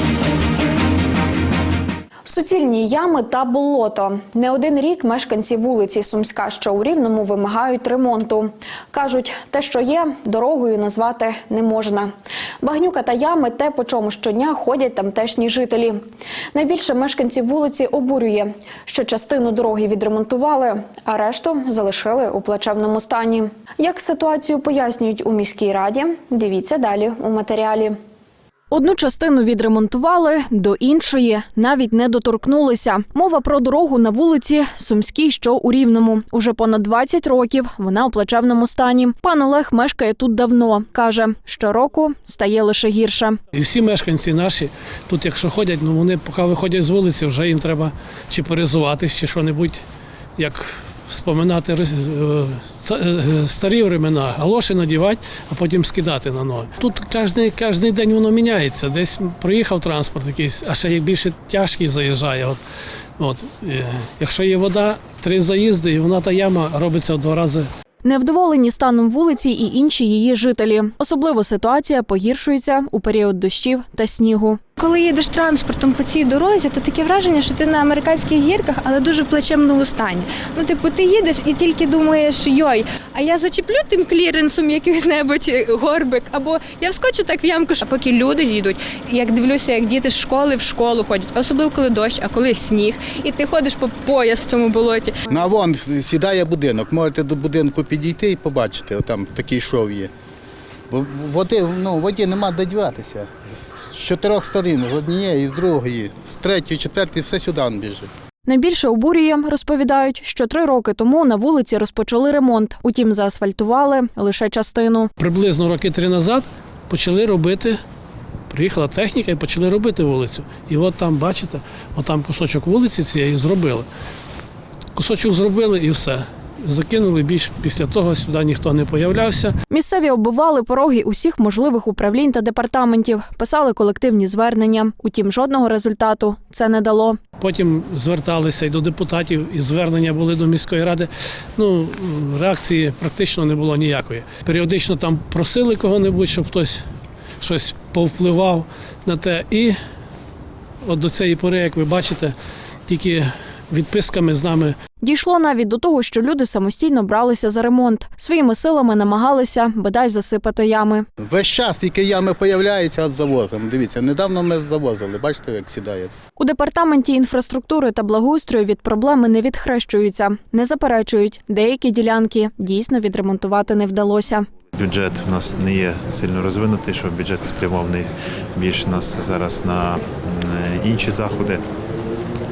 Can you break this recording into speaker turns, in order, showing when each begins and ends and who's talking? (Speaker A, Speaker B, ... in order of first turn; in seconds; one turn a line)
Speaker A: 2.3-12.1
Speaker A: 12.6-16.0
Speaker A: 16.5-28.0
Speaker B: 28.7-43.4
Speaker C: 43.5-49.8
Speaker C: 50.4-62.6
Speaker C: 63.2-67.7
Speaker B: 68.0-74.6
Speaker D: 74.8-95.1
Speaker E: 95.3-100.1
Speaker E: 100.9-103.3
Speaker E: 103.9-108.1
Speaker B: 108.5-115.1
Speaker C: 115.2-117.8
Speaker C: 118.5-123.9
Speaker C: 125.0-129.5
Speaker B: 129.7-137.2
Speaker C: 137.4-146.8
Speaker C: 147.4-149.8
Speaker C: 150.9-152.4
Speaker C: 152.9-154.8
Speaker B: 155.0-161.1
Speaker E: 161.2-166.2
Speaker B: 166.4-174.5
Speaker F: 174.7-181.6